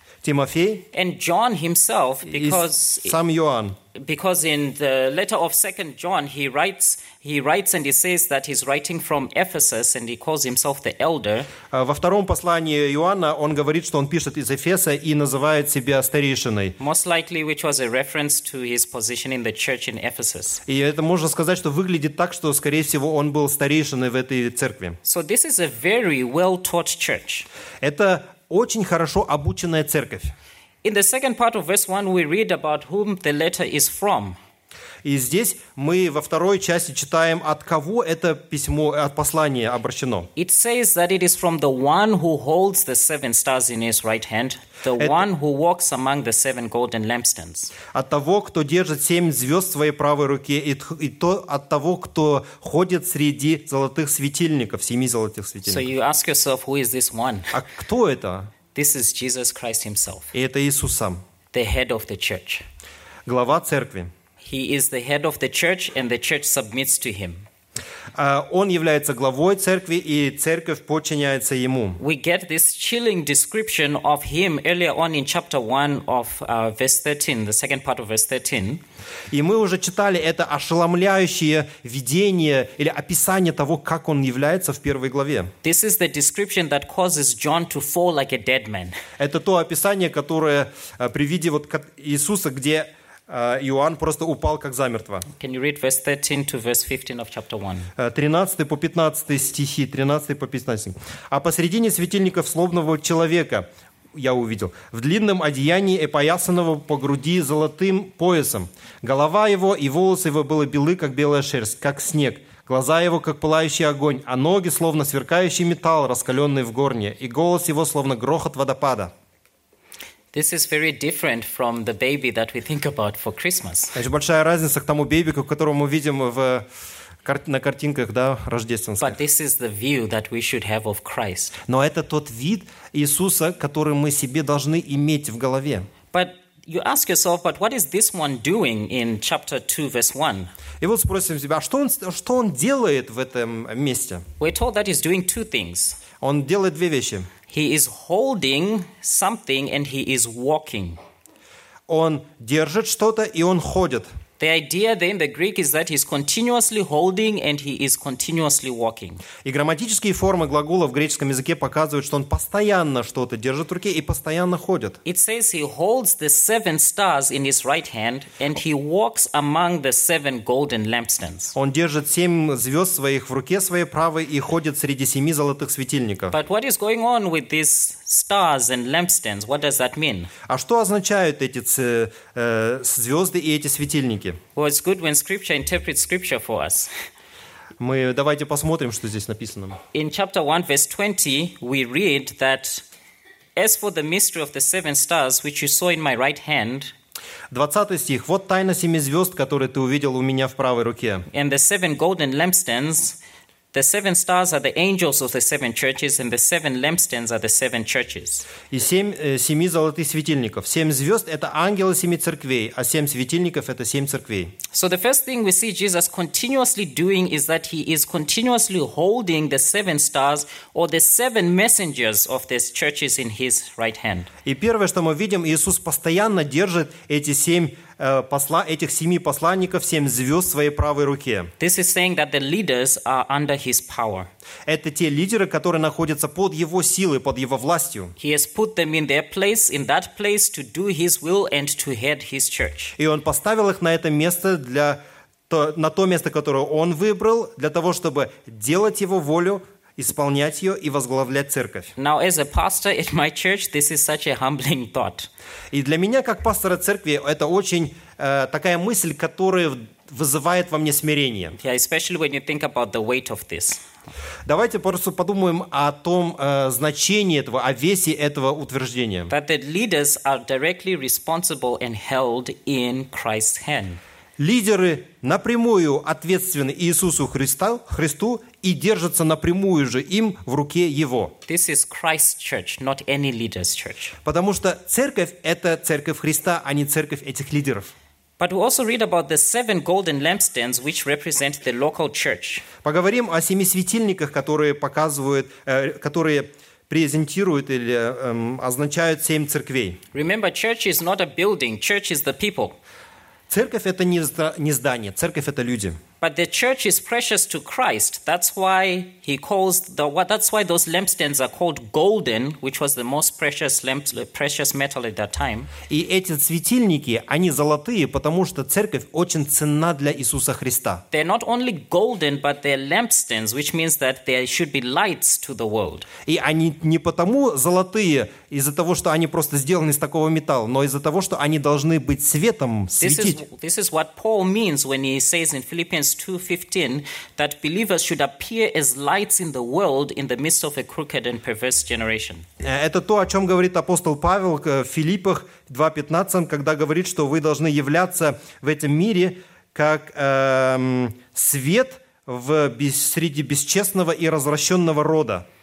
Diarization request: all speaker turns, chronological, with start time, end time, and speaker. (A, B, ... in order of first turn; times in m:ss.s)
0:00.2-0:00.8 A
0:00.9-0:03.2 B
0:02.3-0:03.8 A
0:03.9-0:11.5 B
0:11.7-0:16.8 A
0:16.8-0:20.6 B
0:20.7-0:25.0 A
0:25.0-0:27.5 B
0:27.8-0:30.3 A
0:30.8-0:34.4 B
0:35.0-0:40.3 A
0:40.4-0:47.7 B
0:45.0-0:45.2 A
0:47.9-0:55.9 A
0:55.6-0:57.6 B
0:57.5-0:58.5 A
0:58.7-1:00.3 B
1:00.3-1:01.2 A
1:01.5-1:02.6 B
1:03.2-1:04.1 A
1:04.4-1:07.4 B
1:08.1-1:12.0 A
1:12.0-1:18.8 B
1:19.3-1:25.5 A
1:25.6-1:29.0 B
1:29.2-1:35.3 A
1:35.4-1:37.9 B
1:38.0-1:59.1 A
2:00.3-2:04.0 B
2:03.9-2:06.6 A
2:07.2-2:09.2 A
2:09.0-2:11.5 B
2:11.7-2:15.9 A
2:16.1-2:20.5 B
2:20.8-2:24.2 A
2:24.4-2:26.0 B
2:26.2-2:27.3 A
2:27.5-2:31.0 B
2:31.9-2:34.1 A
2:34.4-2:39.2 B
2:39.4-2:45.0 A
2:45.0-2:51.5 B
2:51.5-2:56.3 A
2:56.3-3:00.3 B
3:00.5-3:04.4 A
3:04.5-3:06.9 B
3:07.8-3:09.8 A
3:09.9-3:12.8 B
3:13.6-3:16.9 B
3:17.5-3:21.3 A
3:21.3-3:23.2 B
3:23.7-3:28.5 B
3:28.7-3:34.5 A
3:34.7-3:44.3 B
3:44.4-3:51.5 A
3:51.6-3:54.3 B
3:54.6-3:58.1 A
3:58.2-4:02.9 B
4:03.0-4:11.9 A
4:12.0-4:15.3 B
4:15.7-4:21.6 A
4:21.6-4:23.8 B
4:24.4-4:29.3 A
4:29.3-4:34.0 B
4:34.4-4:41.3 A
4:41.5-4:44.2 B
4:44.2-4:47.9 A
4:48.4-4:52.6 B
4:52.8-5:00.0 A
5:00.1-5:02.8 B
5:03.5-5:06.0 A
5:06.2-5:15.7 B
5:15.9-5:21.0 A
5:21.1-5:26.1 B
5:26.2-5:33.4 A
5:33.0-5:42.4 B
5:42.6-5:55.4 A